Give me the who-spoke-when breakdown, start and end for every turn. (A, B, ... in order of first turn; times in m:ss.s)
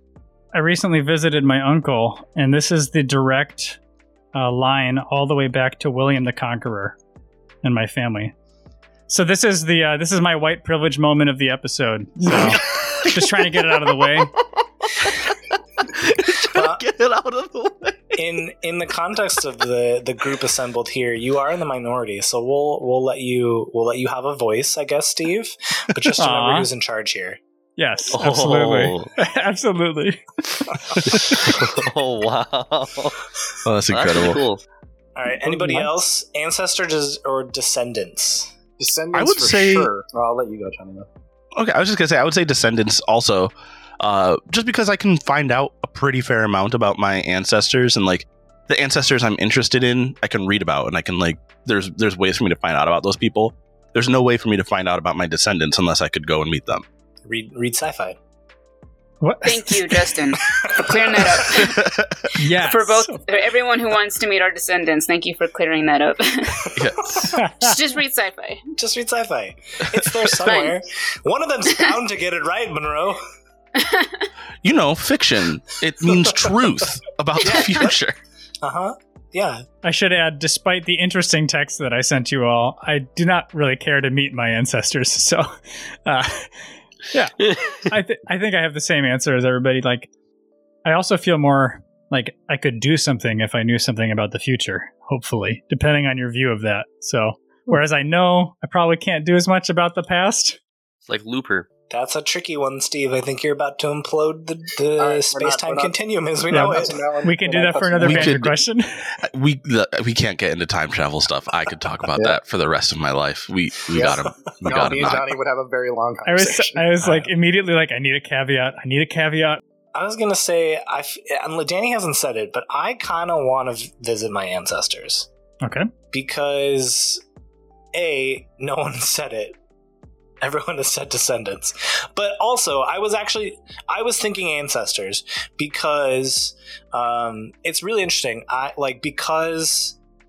0:00.5-0:03.8 A
0:04.3-0:07.0 A
0:07.6-0:08.3 A
0:09.1-0:14.3 A
0:12.3-0:12.6 B
0:15.0-0:15.3 B
0:16.0-0:18.4 B
0:16.5-0:16.8 C
0:18.2-0:27.4 C
0:26.2-0:26.7 A
0:27.8-0:30.3 A
0:28.1-0:29.1 B
0:31.1-0:33.2 B
0:33.6-0:34.4 D
0:33.9-0:34.6 B
0:35.2-0:38.5 C
0:35.4-0:36.0 E
0:38.8-0:41.1 E
0:39.2-0:39.9 D
0:41.6-0:56.8 D
0:57.3-0:58.2 C
0:59.2-1:00.1 A
0:59.4-1:01.8 F
1:00.5-1:01.4 C
1:01.4-1:02.3 D
1:02.4-1:03.2 A
1:02.6-1:06.7 F
1:06.6-1:07.4 C
1:06.8-1:07.2 D
1:07.4-1:07.8 A
1:07.6-1:08.6 F
1:08.8-1:13.2 C
1:10.4-1:10.8 F
1:13.8-1:14.3 F
1:14.6-1:18.2 D
1:16.0-1:16.5 C
1:17.4-1:18.0 C
1:18.6-1:19.6 C
1:19.8-1:25.5 A
1:26.1-1:30.1 A
1:30.8-1:40.6 A
1:41.1-1:41.7 B
1:41.9-1:47.0 C
1:45.0-1:48.4 E
1:46.5-1:49.1 A
1:48.0-1:48.6 D
1:49.2-1:55.3 D
1:53.9-1:57.0 E
1:56.2-1:59.6 A
2:00.0-2:05.3 C
2:05.6-2:05.9 A
2:06.1-2:07.2 C
2:07.9-2:09.6 C
2:10.4-2:20.0 C